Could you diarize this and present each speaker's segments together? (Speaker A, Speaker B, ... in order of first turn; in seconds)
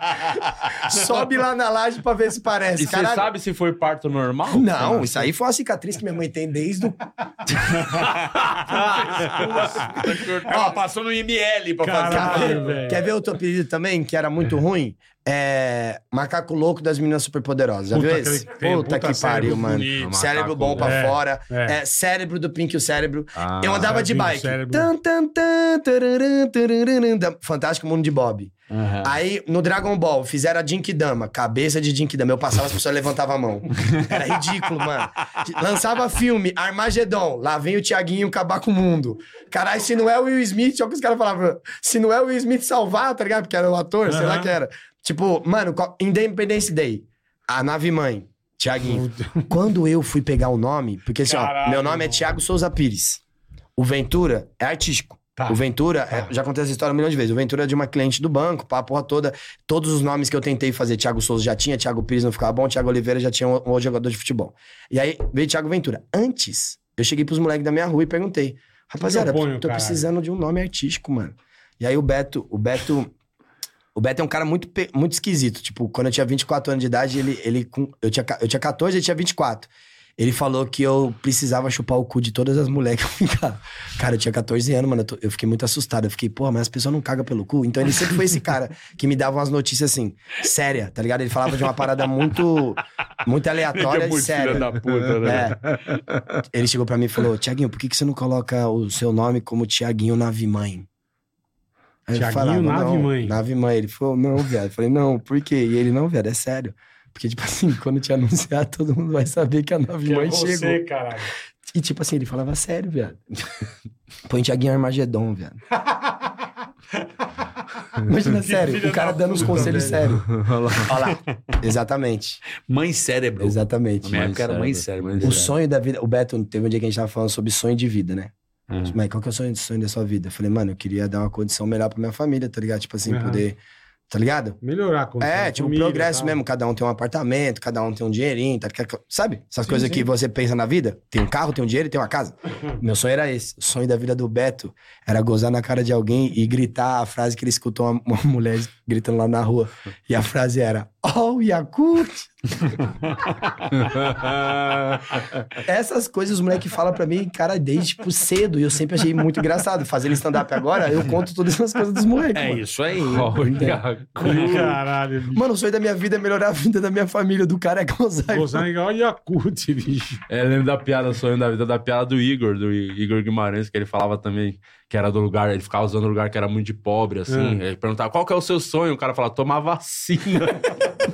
Speaker A: 0.2-3.3, 4.5-7.6, 10.4-10.8, 12.1-53.2, 53.8-73.1, 74.0-95.6, 96.5-100.9, 102.1-110.8, 111.7-113.2, 114.3-115.6, 118.1-122.4, 123.4-124.2, 125.2-128.3, 128.9-133.6, 134.1-134.6, 135.2-152.3, 155.6-162.6, 163.4-163.8, 165.3-168.7
Speaker B: 2.8-5.3, 8.7-9.5, 20.0-21.1, 23.4-24.0, 119.5-120.9, 124.1-125.5, 153.8-155.4, 163.1-164.8, 170.3-180.9
Speaker C: 7.8-12.9, 28.7-29.2, 93.7-95.5, 122.6-125.5, 128.7-129.0, 153.1-153.5, 162.3-163.7
Speaker D: 11.8-13.0, 17.9-20.1, 20.8-21.8, 23.8-24.9, 44.1-44.5, 48.8-49.5, 51.2-52.4, 55.4-56.3, 69.0-70.1, 102.1-103.4, 110.0-111.3, 118.3-120.1, 133.1-133.4, 134.6-136.4, 139.7-140.1, 164.2-165.4, 168.3-170.2, 177.3-177.6